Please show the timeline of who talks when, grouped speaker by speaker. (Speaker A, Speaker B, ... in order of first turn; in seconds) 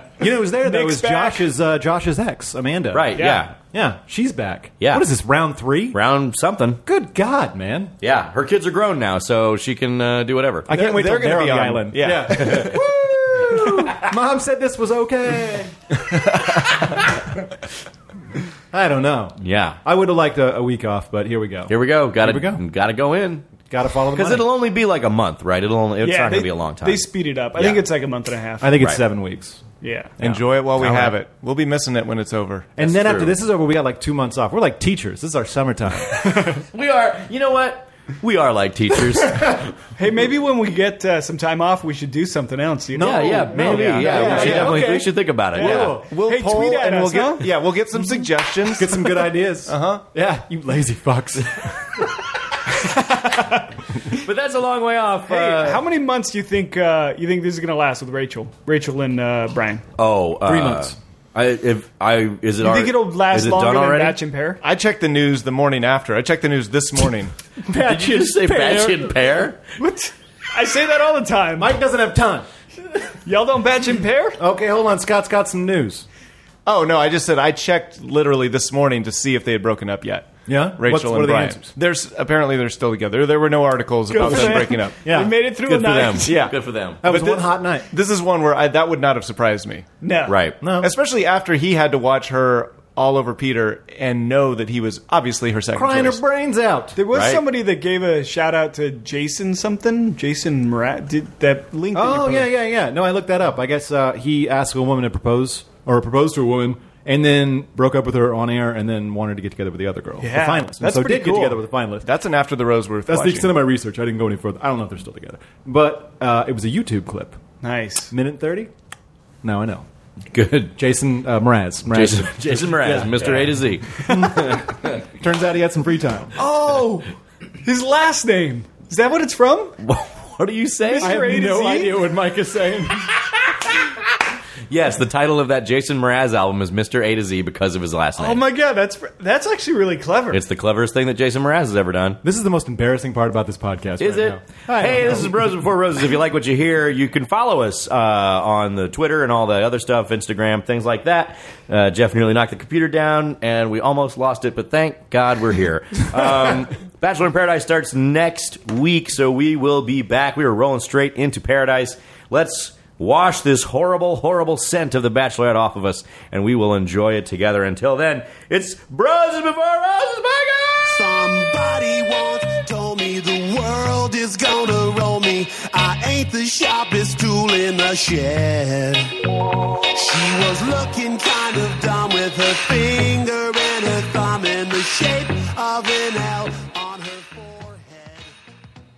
Speaker A: 0.2-6.0, 6.8-7.9, 10.7-15.7, 18.7-22.6, 23.7-24.5, 28.6-31.2, 32.8-36.4, 42.9-46.0, 48.7-51.5, 60.4-61.0, 67.6-69.2, 71.6-72.5, 74.4-76.0, 80.5-81.7, 84.2-85.3, 86.2-87.9, 90.6-90.9, 95.7-97.0, 101.9-112.1, 113.1-117.4, 118.1-118.7, 119.4-119.9, 120.8-126.3, 131.0-133.1, 142.2-145.3
Speaker B: 0.6-1.5, 3.1-3.5, 26.0-28.7, 29.8-30.1, 40.0-45.0, 45.5-47.5, 55.3-59.8, 62.6-64.6, 69.8-71.8, 73.2-74.4, 84.1-86.5, 90.0-90.4, 97.0-102.5, 110.2-111.6, 117.6-118.1, 126.3-127.1, 127.6-129.7, 130.9-132.0, 138.2-140.4
Speaker C: 2.9-3.5, 4.8-5.1, 5.9-6.8, 8.0-10.7, 12.5-12.8, 19.4-19.8, 21.7-23.5, 24.1-27.8, 36.7-39.8, 43.0-46.0, 54.1-55.8, 60.0-64.2, 67.8-69.6, 85.6-87.0, 90.3-90.6, 97.1-97.4, 120.3-120.8, 121.8-125.0, 129.8-131.2, 133.3-133.9, 134.7-138.4, 140.3-142.2, 144.0-171.0
Speaker D: 10.7-12.8, 30.2-33.3, 44.4-44.7, 46.0-50.0, 64.6-67.3, 76.7-85.0, 87.0-89.8, 90.8-96.2, 112.0-113.6
Speaker E: 170.9-179.1, 179.9-188.4